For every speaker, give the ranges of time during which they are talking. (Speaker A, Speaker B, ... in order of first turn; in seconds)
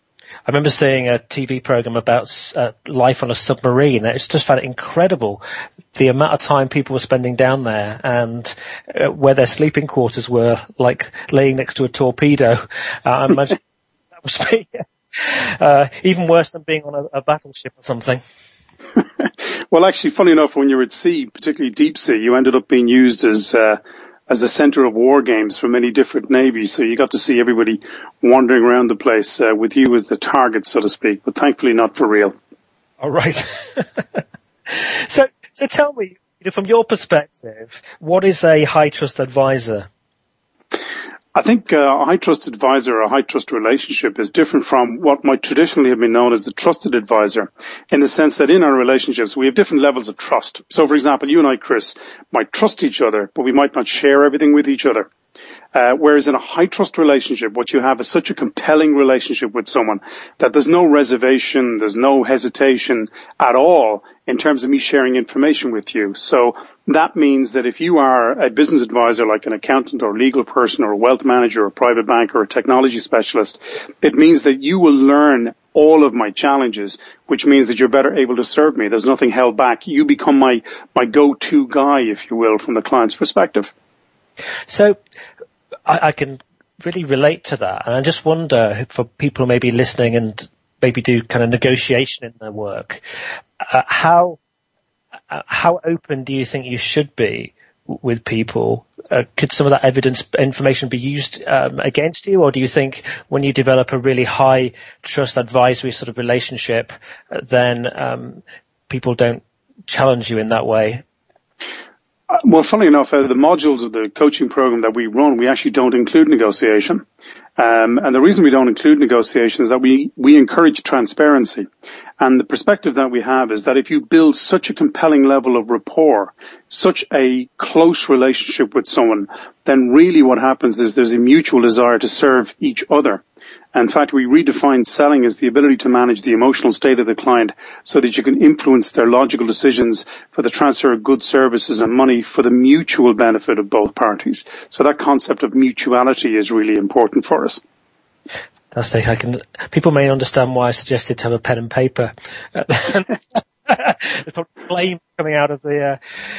Speaker A: 0.5-5.4, 5.9-13.6, 14.2-18.2, 33.0-39.9, 84.7-85.0, 85.9-93.0, 93.7-94.4, 95.3-111.0, 148.7-156.0
Speaker B: 19.2-32.3, 41.3-55.1, 55.7-83.7, 112.3-117.0, 117.6-121.7, 122.2-133.2, 133.7-147.6